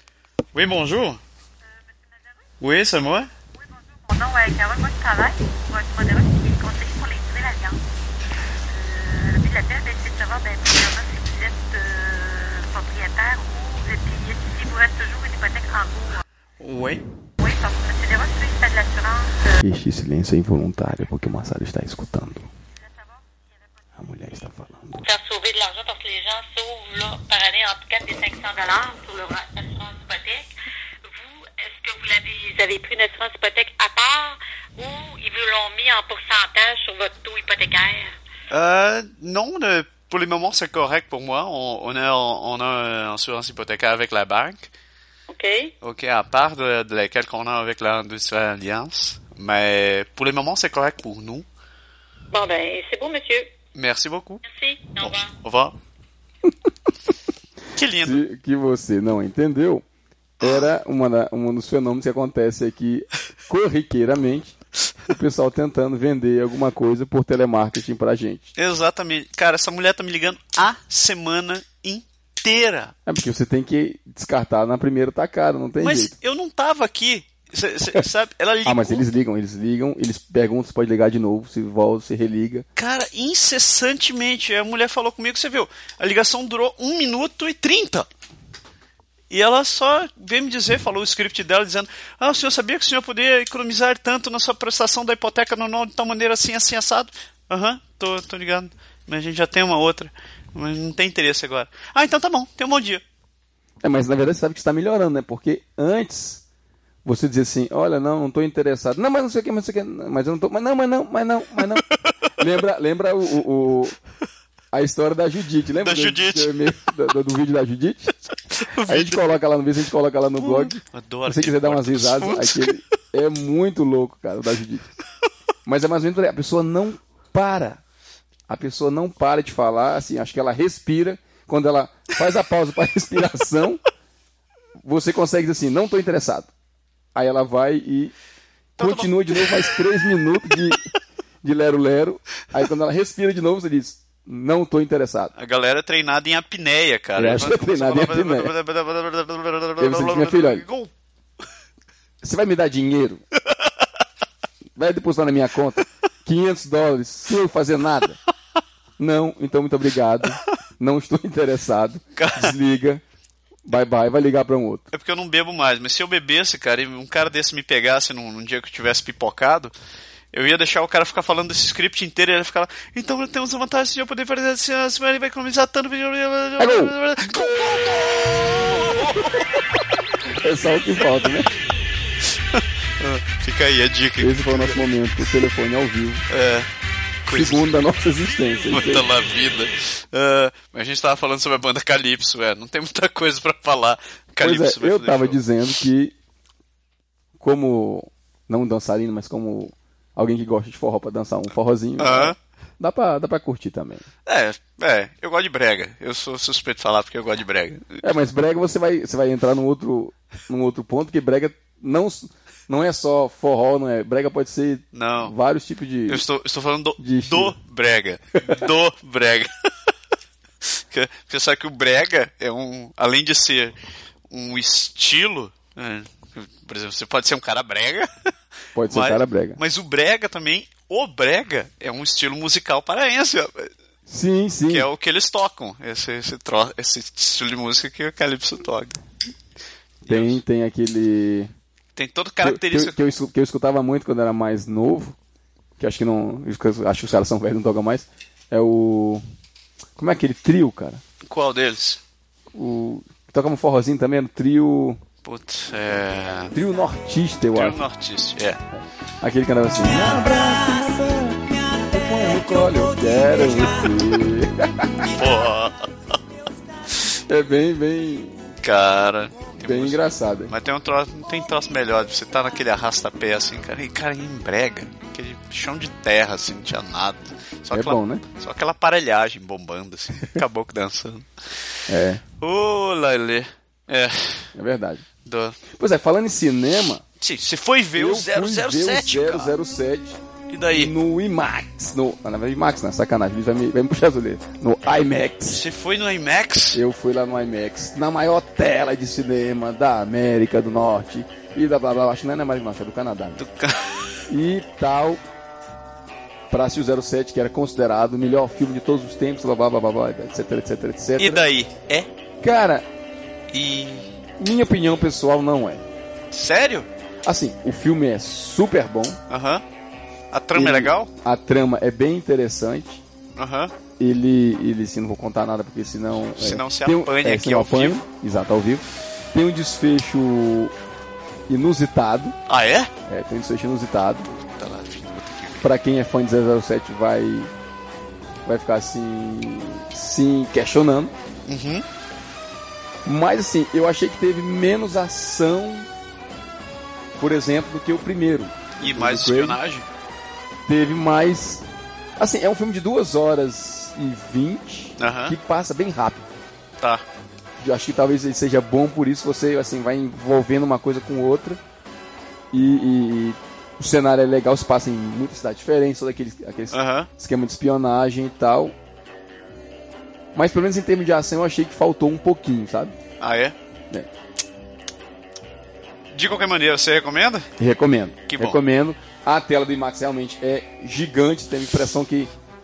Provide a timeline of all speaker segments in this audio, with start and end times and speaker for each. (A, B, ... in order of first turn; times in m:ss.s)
0:00.5-0:01.2 A
0:02.6-0:03.3 A
0:04.0-0:07.8 B
0:08.6-0:16.2 B
0:16.6-0:17.0 A
0:17.4-0:19.6 B
0:19.6-0:22.5 C
0:22.8-0:23.2 B
0:24.0-0:25.0 C
0:25.0-0:30.5 B
0:31.0-0:38.1 B
0:38.5-0:44.7 A
0:45.3-0:45.7 B
0:45.8-0:51.5 A
0:52.3-0:53.5 B
0:53.8-0:54.4 A
0:54.5-0:55.3 B
0:55.0-0:55.8 A
0:57.7-0:58.2 A
0:58.0-0:59.8 C
1:00.4-1:04.6 C
1:05.1-1:08.5 C
1:08.6-1:12.9 A
1:13.1-1:16.1 C
1:15.8-1:19.0 A
1:18.7-1:22.6 C
1:22.8-1:28.1 A
1:29.3-1:43.0 A
1:43.8-1:46.4 C
1:47.0-1:51.8 C
1:52.4-1:54.0 C
1:54.7-1:58.3 C
1:55.8-1:56.5 A
1:58.6-1:59.3 A
1:58.8-2:04.9 C
2:00.4-2:02.7 A
2:05.7-2:07.8 C
2:08.5-2:13.8 C
2:14.8-2:16.5 C
2:17.2-2:18.1 C
2:18.8-2:19.8 A
2:18.8-2:20.8 C
2:21.4-2:25.3 C
2:25.4-2:30.9 A
2:27.2-2:28.5 C
2:29.8-2:30.6 C
2:32.2-2:33.2 C
2:34.8-2:38.2 C
2:39.0-2:43.0 C
2:42.2-2:42.5 A
2:43.7-2:44.9 C
2:44.9-2:49.7 A
2:50.3-2:59.4 A
2:56.6-2:57.0 C
3:00.3-3:01.5 C
3:02.5-3:04.8 A
3:04.2-3:06.2 C
3:06.3-3:06.7 A
3:07.2-3:07.7 A
3:07.3-3:09.1 C
3:08.7-3:15.4 A
3:14.4-3:16.1 C
3:17.4-3:24.0 C
3:22.0-3:22.4 A
3:24.3-3:28.0 A
3:28.0-3:36.2 C
3:34.9-3:35.3 A
3:36.1-3:39.5 A
3:37.0-3:37.6 C
3:40.7-3:43.8 A
3:44.3-3:48.1 A
3:48.8-3:49.6 C
3:48.9-3:53.7 A
3:54.1-3:54.9 C
3:54.7-3:59.0 A
4:00.1-4:01.5 C
4:00.1-4:00.4 A
4:02.0-4:03.0 A
4:02.4-4:05.2 C
4:05.8-4:09.2 C
4:10.0-4:11.0 C
4:11.2-4:12.0 A
4:12.5-4:15.0 C
4:15.2-4:16.6 A
4:16.5-4:17.8 C
4:17.5-4:18.6 A
4:19.2-4:25.1 C
4:25.1-4:26.1 A
4:27.3-4:28.4 C
4:28.6-4:41.3 A
4:29.6-4:30.5 C
4:37.7-4:38.2 C
4:41.9-4:42.2 C
4:42.4-4:44.5 A
4:44.6-4:45.0 C
4:45.2-4:45.6 A
4:45.7-4:47.0 C
4:47.2-4:49.5 A
4:48.0-4:50.2 C
4:50.5-4:50.9 A
4:50.7-4:55.6 C
4:55.5-4:56.8 A
4:56.7-5:03.4 C
5:03.4-5:04.2 A
5:04.3-5:05.2 C
5:06.5-5:11.4 C
5:11.2-5:12.1 A
5:12.4-5:12.9 C
5:13.5-5:14.1 A
5:14.4-5:15.8 C
5:16.3-5:16.9 A
5:17.2-5:19.2 C
5:19.3-5:19.6 A
5:20.3-5:21.1 A
5:20.6-5:23.0 C
5:23.4-5:23.7 A
5:24.0-5:30.7 C
5:26.4-5:28.0 A
5:31.5-5:32.4 C
5:32.5-5:32.9 A
5:33.1-5:34.3 C
5:34.3-5:35.7 A
5:35.6-5:37.5 C
5:38.4-5:41.1 C
5:41.5-5:41.8 A
5:43.0-5:45.9 C
5:47.2-5:49.6 C
5:48.8-5:49.9 A
5:50.7-5:51.6 C
5:52.2-5:56.3 C
5:55.0-5:55.4 A
5:57.6-6:01.6 C
6:02.5-6:08.8 C
6:06.7-6:07.1 A
6:10.3-6:12.9 C
6:13.2-6:13.6 A
6:16.1-6:17.5 A
6:17.6-6:22.3 C
6:18.3-6:18.6 A